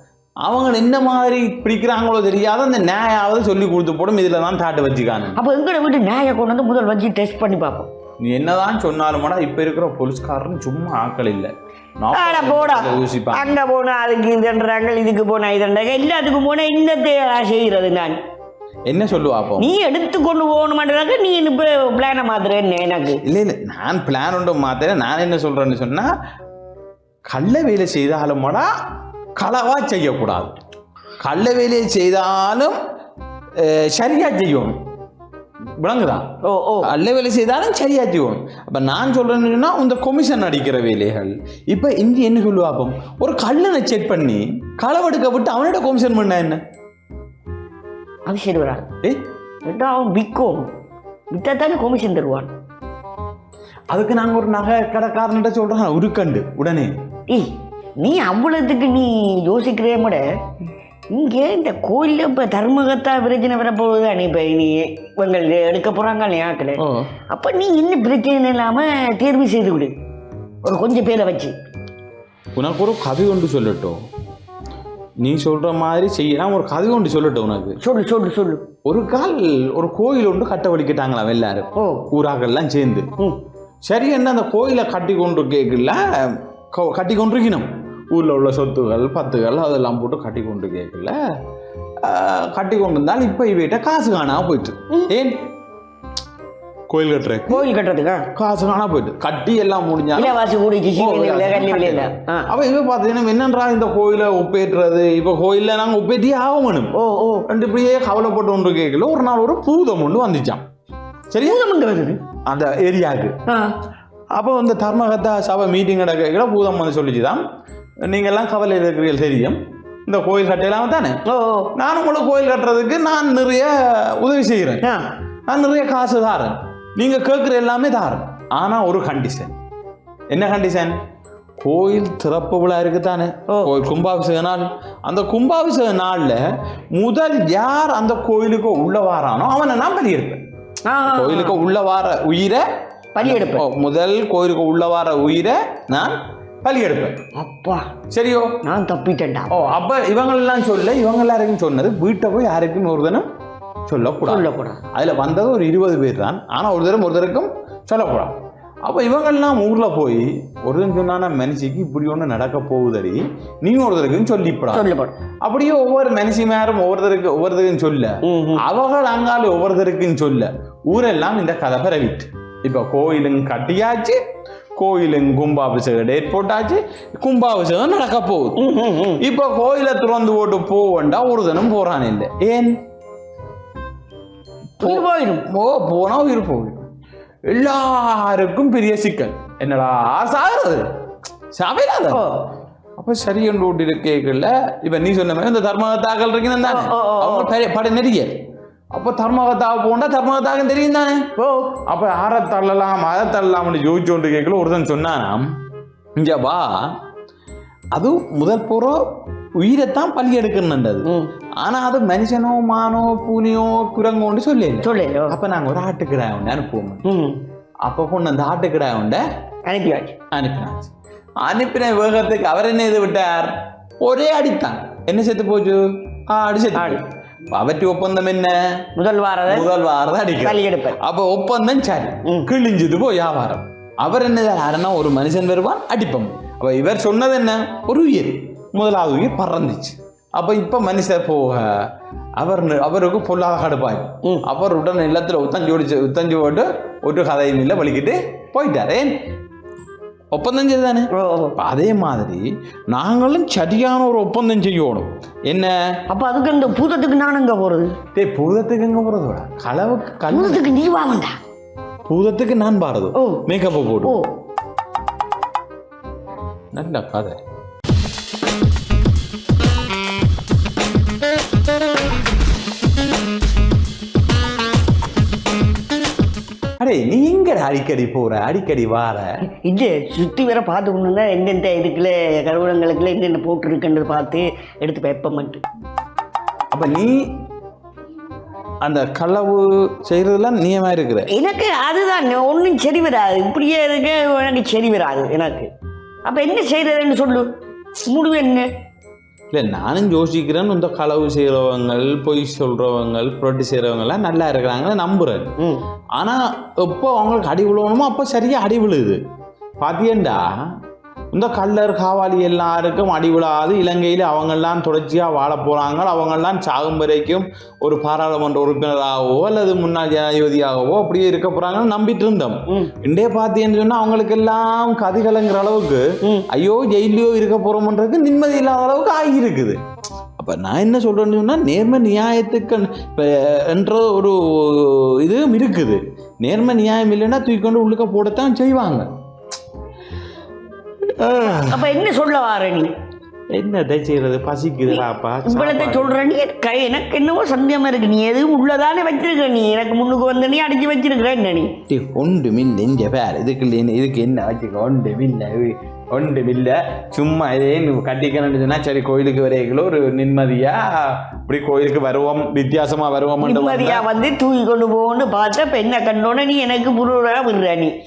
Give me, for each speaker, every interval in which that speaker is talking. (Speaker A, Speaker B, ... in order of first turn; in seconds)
Speaker A: 0.4-5.4, 8.2-13.5, 18.9-19.7, 23.2-26.1, 27.3-28.7, 29.4-30.5, 31.2-32.8, 33.6-34.7, 35.8-36.3, 36.8-46.6, 53.9-57.0, 66.8-67.1, 72.6-74.0, 75.2-77.8, 78.8-83.1, 83.9-91.2, 92.0-95.4, 96.9-97.7, 98.3-100.4, 101.0-106.9, 107.5-110.7, 111.3-111.6, 112.4-113.4, 114.3-117.4, 118.0-121.2, 121.8-124.8, 125.5-129.6, 130.3-131.0, 131.6-136.4, 136.9-140.4, 141.1-142.7, 143.2-147.2, 148.1-148.6, 149.5-153.3, 153.9-164.9, 165.4-174.2, 174.8-178.6, 179.2-182.7, 184.8-186.9, 187.5-190.8, 191.5-192.3, 193.0-198.4, 198.9-201.3, 201.9-205.5, 206.2-207.0, 207.9-209.0, 209.6-211.1, 211.6-217.0, 217.8-219.2, 220.3-228.9, 229.5-249.2, 250.3-255.9, 258.1-260.7, 262.1-264.2, 266.7-267.4, 276.8-279.3, 286.7-287.2, 288.8-291.3, 299.5-305.5, 306.2-309.2, 309.8-310.5, 311.3-329.8, 330.4-339.1, 341.1-341.9, 343.5-346.2, 351.9-364.1
Speaker B: 5.3-7.9, 12.1-18.2, 19.6-23.2, 36.4-36.9, 48.3-48.9, 49.6-50.7, 51.3-52.5, 57.3-60.2, 61.1-69.9, 70.6-71.5, 77.8-78.6, 81.8-82.1, 97.5-98.3, 100.2-102.5, 106.9-107.5, 111.4-112.2, 113.5-113.7, 121.3-121.7, 124.8-125.1, 140.9-141.6, 143.2-143.7, 147.3-147.9, 148.6-149.5, 154.2-154.8, 164.7-165.2, 168.2-168.7, 178.6-179.2, 184.8-185.5, 192.1-192.4, 196.6-197.5, 201.4-201.8, 211.0-211.3, 214.8-215.4, 217.1-217.4, 219.7-220.2, 226.8-227.0, 229.0-229.7, 230.4-231.0, 251.1-251.6, 256.1-257.9, 260.3-261.4, 263.2-263.5, 279.6-285.6, 291.3-295.7, 296.3-297.5, 298.0-298.7, 326.2-326.5, 341.4-342.9, 344.9-351.8, 363.4-367.9